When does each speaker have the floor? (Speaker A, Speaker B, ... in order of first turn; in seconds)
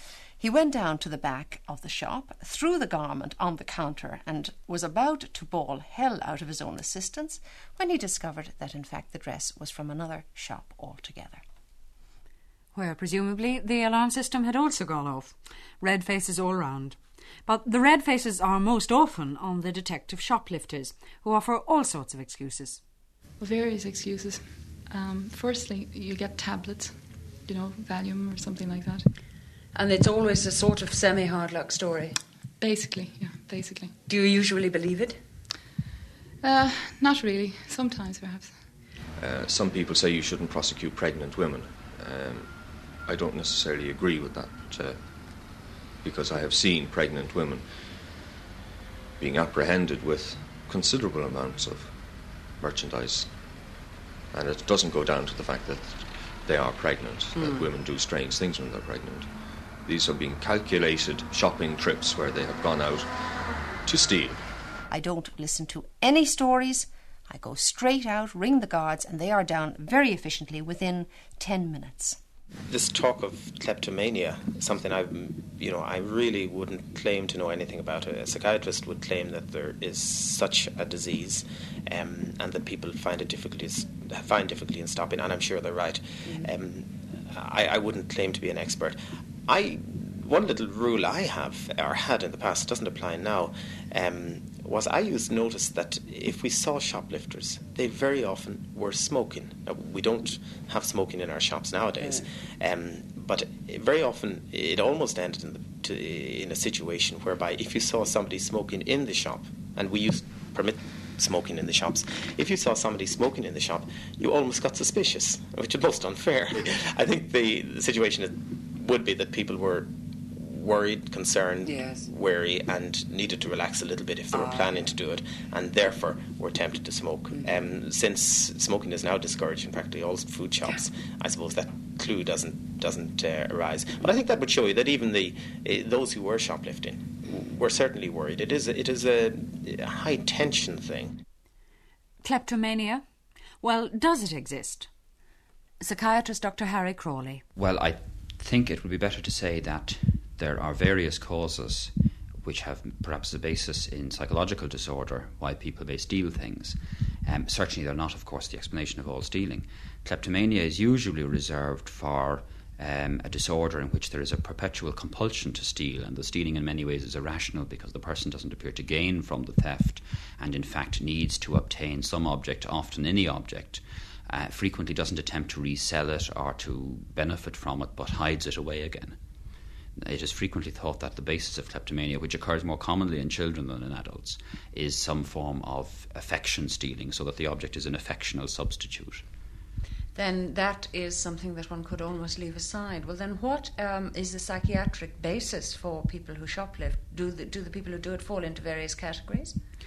Speaker A: 0.4-11.4, 64.9-72.2
Speaker B: 12.7-22.8, 142.2-143.0, 143.6-144.9, 145.8-147.4
Speaker C: 23.4-29.1, 32.6-33.9, 36.4-38.6
Speaker D: 29.7-32.2, 34.1-35.2, 57.3-57.7, 86.2-86.5, 121.6-122.1, 124.3-124.8, 190.1-199.6
Speaker E: 39.2-42.5, 43.0-45.0, 46.0-47.7, 49.2-51.9, 52.6-53.3, 54.3-59.3, 59.8-63.1, 63.8-64.4
Speaker F: 72.7-141.2
Speaker G: 147.5-179.2, 179.9-189.2